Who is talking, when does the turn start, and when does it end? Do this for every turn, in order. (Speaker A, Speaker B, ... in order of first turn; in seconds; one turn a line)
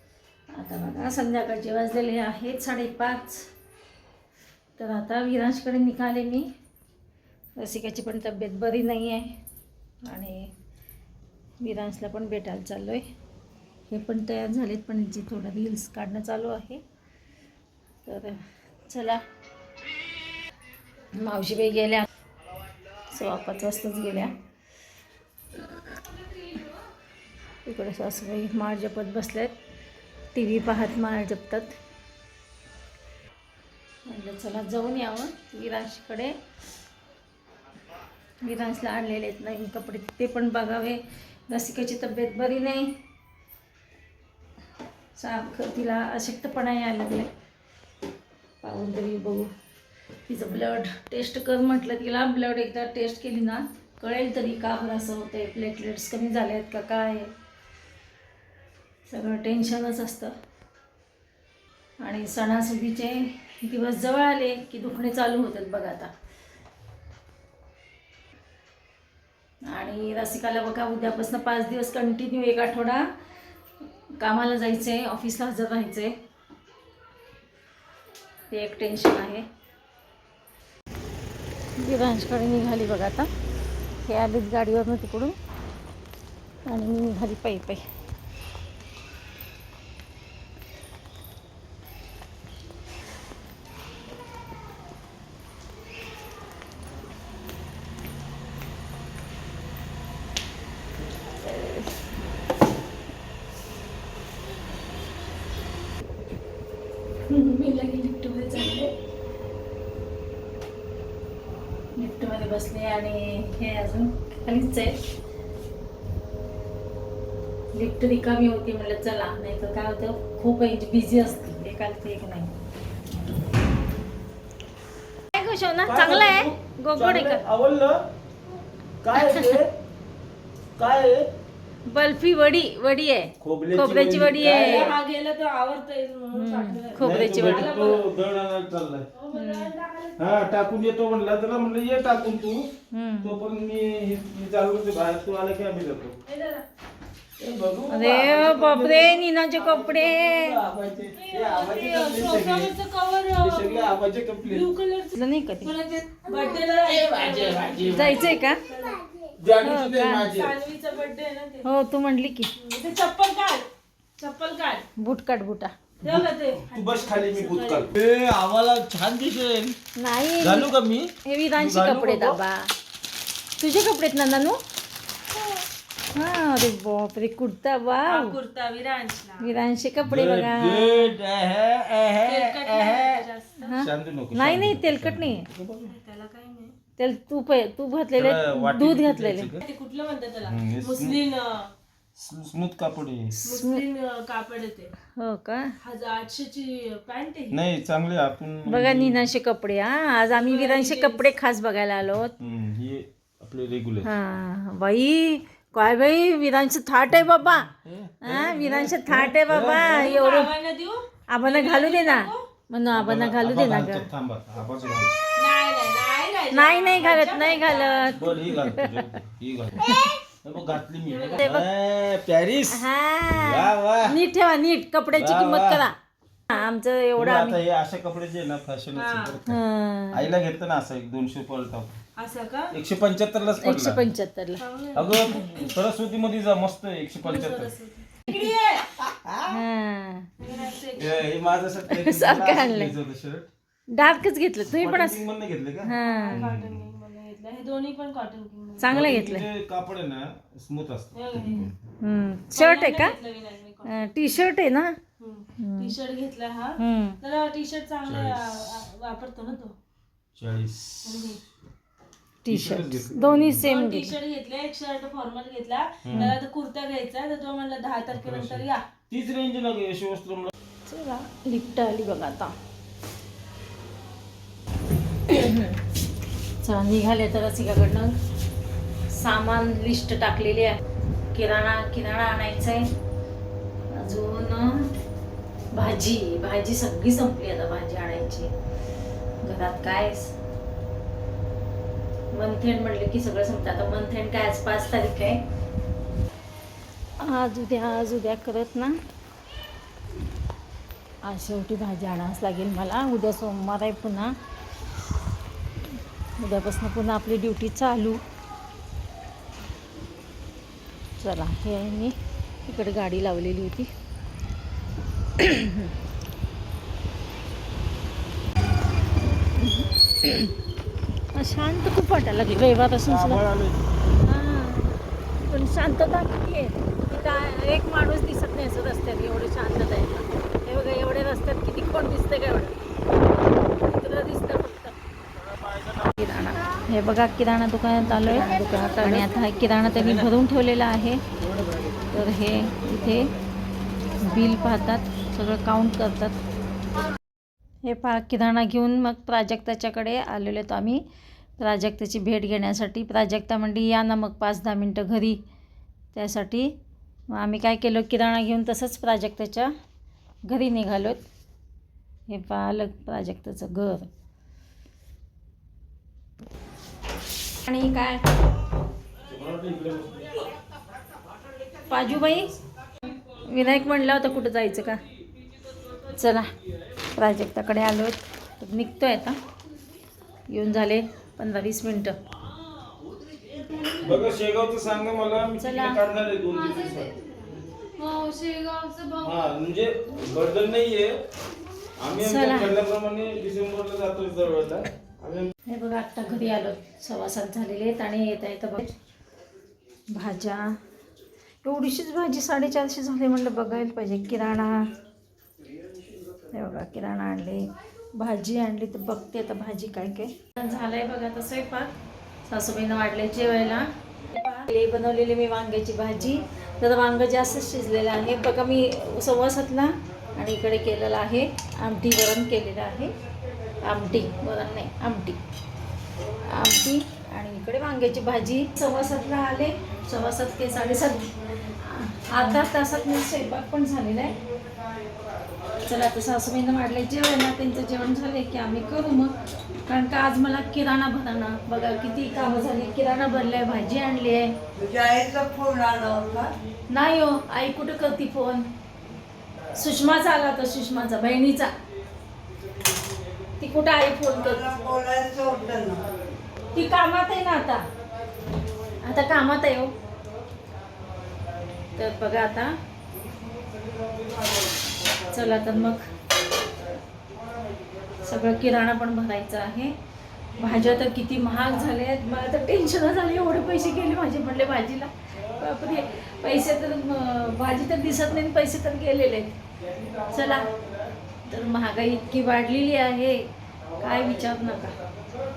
Speaker A: 0.5-3.5
Speaker A: 4.8-6.5
Speaker A: 7.6-9.3
Speaker A: 10.1-10.5
Speaker A: 11.6-13.1
Speaker A: 13.9-16.8
Speaker A: 18.1-19.2
Speaker A: 21.1-22.1
Speaker A: 23.1-24.3
Speaker A: 27.6-29.5
Speaker A: 30.3-31.7
Speaker A: 34.1-36.3
Speaker A: 38.4-42.9
Speaker A: 45.1-47.3
Speaker A: 48.6-49.5
Speaker A: 50.3-57.3
Speaker A: 59.1-60.3
Speaker A: 62.0-66.1
Speaker A: 69.7-73.0
Speaker A: 74.2-76.1
Speaker A: 78.5-79.4
Speaker A: 81.8-83.3
Speaker A: 84.0-85.3
Speaker A: 86.7-87.8
Speaker A: 101.5-101.8
Speaker A: 107.3-108.9
Speaker A: 112.0-115.0
Speaker A: 117.7-122.5
Speaker A: 125.3-127.4
Speaker B: 125.8-128.0
Speaker B: 129.0-129.7
Speaker A: 129.2-129.6
Speaker B: 130.8-131.3
Speaker A: 131.9-134.9
Speaker B: 133.4-134.9
Speaker C: 134.4-138.1
Speaker A: 136.3-137.7
Speaker B: 137.0-139.1
Speaker C: 139.1-140.2
Speaker A: 139.3-139.7
Speaker B: 140.2-142.7
Speaker A: 142.9-143.3
Speaker B: 143.2-146.2
Speaker C: 146.3-146.7
Speaker B: 147.4-152.7
Speaker A: 147.9-150.6
Speaker C: 151.1-159.0
Speaker B: 153.4-154.7
Speaker A: 155.1-155.7
Speaker B: 156.9-158.3
Speaker A: 157.9-158.6
Speaker B: 159.4-160.5
Speaker A: 159.6-160.3
Speaker C: 160.2-161.7
Speaker A: 161.6-162.5
Speaker C: 162.6-163.7
Speaker C: 164.2-164.8
Speaker A: 165.0-165.7
Speaker C: 166.0-167.9
Speaker B: 166.0-169.8
Speaker A: 170.0-170.7
Speaker B: 170.4-172.4
Speaker A: 171.2-172.7
Speaker A: 173.6-174.6
Speaker A: 176.1-178.4
Speaker C: 178.1-179.5
Speaker A: 179.4-181.1
Speaker B: 180.0-185.9
Speaker C: 182.2-183.7
Speaker A: 183.6-185.5
Speaker C: 185.9-186.7
Speaker A: 187.0-189.5
Speaker B: 188.1-189.6
Speaker C: 189.6-191.7
Speaker B: 190.4-191.2
Speaker B: 192.2-193.4
Speaker C: 193.4-194.9
Speaker A: 193.4-193.8
Speaker A: 195.2-195.7
Speaker C: 195.8-197.6
Speaker B: 197.5-199.2
Speaker A: 198.7-202.3
Speaker C: 200.3-201.2
Speaker B: 202.4-204.1
Speaker A: 204.0-207.7
Speaker B: 207.8-210.2
Speaker A: 208.2-210.5
Speaker C: 209.6-212.5
Speaker A: 211.3-214.1
Speaker B: 212.9-215.2
Speaker C: 215.4-218.4
Speaker A: 216.5-219.1
Speaker B: 218.1-219.8
Speaker C: 219.8-220.2
Speaker A: 219.8-220.1
Speaker B: 220.4-224.2
Speaker C: 221.0-221.5
Speaker A: 221.4-221.7
Speaker A: 222.7-225.9
Speaker B: 225.1-225.8
Speaker A: 226.5-227.6
Speaker B: 227.2-229.6
Speaker C: 228.9-229.4
Speaker A: 229.4-230.3
Speaker B: 230.1-231.9
Speaker C: 232.2-232.7
Speaker B: 232.7-234.0
Speaker A: 233.6-234.6
Speaker C: 234.6-235.6
Speaker B: 234.9-237.7
Speaker C: 237.2-238.9
Speaker B: 239.0-239.6
Speaker A: 239.5-240.3
Speaker C: 240.4-241.2
Speaker B: 240.9-243.5
Speaker A: 241.9-242.9
Speaker A: 243.9-245.2
Speaker B: 244.7-246.9
Speaker A: 245.8-246.4
Speaker C: 246.0-249.0
Speaker A: 248.8-249.5
Speaker B: 248.9-251.7
Speaker C: 251.1-251.7
Speaker A: 252.0-253.2
Speaker C: 252.5-254.5
Speaker A: 253.8-255.0
Speaker C: 255.2-259.7
Speaker A: 255.6-255.9
Speaker A: 256.8-257.2
Speaker B: 258.0-258.8
Speaker B: 260.4-261.4
Speaker C: 261.0-261.4
Speaker A: 262.4-264.1
Speaker B: 262.5-263.7
Speaker C: 263.6-268.8
Speaker B: 266.0-266.3
Speaker B: 268.1-270.5
Speaker A: 270.9-272.5
Speaker A: 275.3-275.8
Speaker A: 276.6-278.1
Speaker A: 279.1-280.8
Speaker A: 281.3-282.9
Speaker A: 283.9-284.9
Speaker A: 285.7-288.5
Speaker A: 289.4-290.3
Speaker A: 292.3-295.4
Speaker A: 297.2-299.0
Speaker A: 301.2-304.3
Speaker A: 306.4-308.2
Speaker A: 311.2-313.9
Speaker A: 315.4-315.9
Speaker A: 319.6-320.5
Speaker A: 321.3-323.4
Speaker B: 323.0-323.9
Speaker A: 324.2-332.8
Speaker A: 333.4-334.9
Speaker A: 335.9-341.2
Speaker B: 341.4-342.1
Speaker A: 342.1-343.3
Speaker A: 344.2-346.4
Speaker A: 347.8-351.0
Speaker A: 351.6-355.4
Speaker A: 356.1-356.7
Speaker A: 357.3-359.7
Speaker A: 360.5-361.2
Speaker A: 362.3-364.1
Speaker A: 367.6-368.3
Speaker B: 369.3-370.4
Speaker A: 371.9-372.5
Speaker A: 373.3-375.0
Speaker A: 376.0-376.5
Speaker A: 377.1-379.4
Speaker A: 380.5-382.1
Speaker B: 383.9-387.2
Speaker A: 385.6-386.0
Speaker A: 388.0-389.3
Speaker B: 389.2-391.1
Speaker B: 392.0-395.5
Speaker A: 392.2-392.8
Speaker A: 395.7-398.9
Speaker A: 400.1-400.7
Speaker A: 401.6-404.8
Speaker A: 406.5-411.9
Speaker A: 412.5-423.1
Speaker A: 423.8-425.4
Speaker A: 426.3-434.4
Speaker A: 435.7-444.6
Speaker D: 444.8-446.5
Speaker A: 446.9-448.7
Speaker A: 449.7-451.7
Speaker A: 453.6-454.9
Speaker D: 454.5-456.1
Speaker A: 456.7-457.8
Speaker A: 459.0-459.9
Speaker A: 461.9-462.7
Speaker B: 463.9-464.2
Speaker A: 465.3-466.1
Speaker A: 468.2-469.9
Speaker A: 470.5-479.5
Speaker B: 479.9-481.1
Speaker A: 480.2-480.7
Speaker A: 481.4-484.9